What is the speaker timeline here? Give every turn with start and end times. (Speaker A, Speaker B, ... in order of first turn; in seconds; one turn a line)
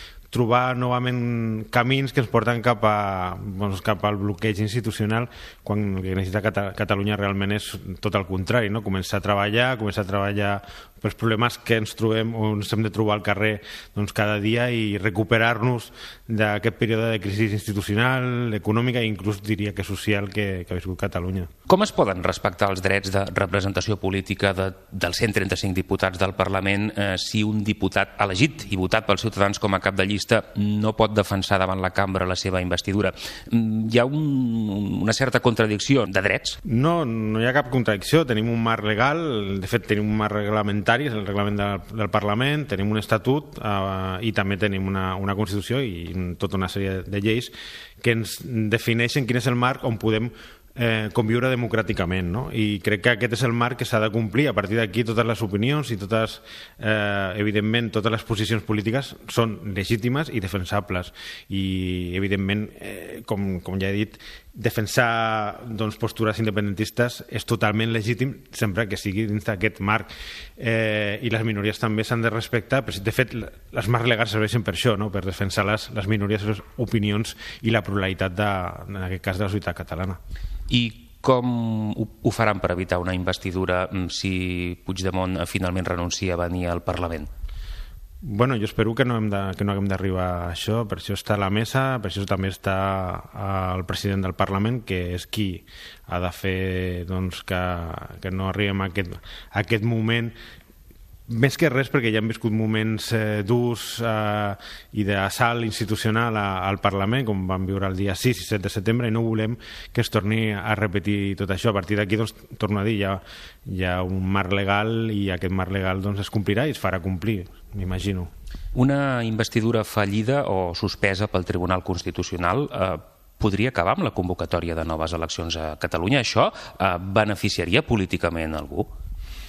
Speaker A: 0.3-21.5
Speaker B: 21.7-36.6
Speaker A: 36.7-80.2
Speaker B: 80.7-87.3
Speaker A: 88.2-100.3
Speaker A: 101.3-118.3
Speaker B: 118.8-128.9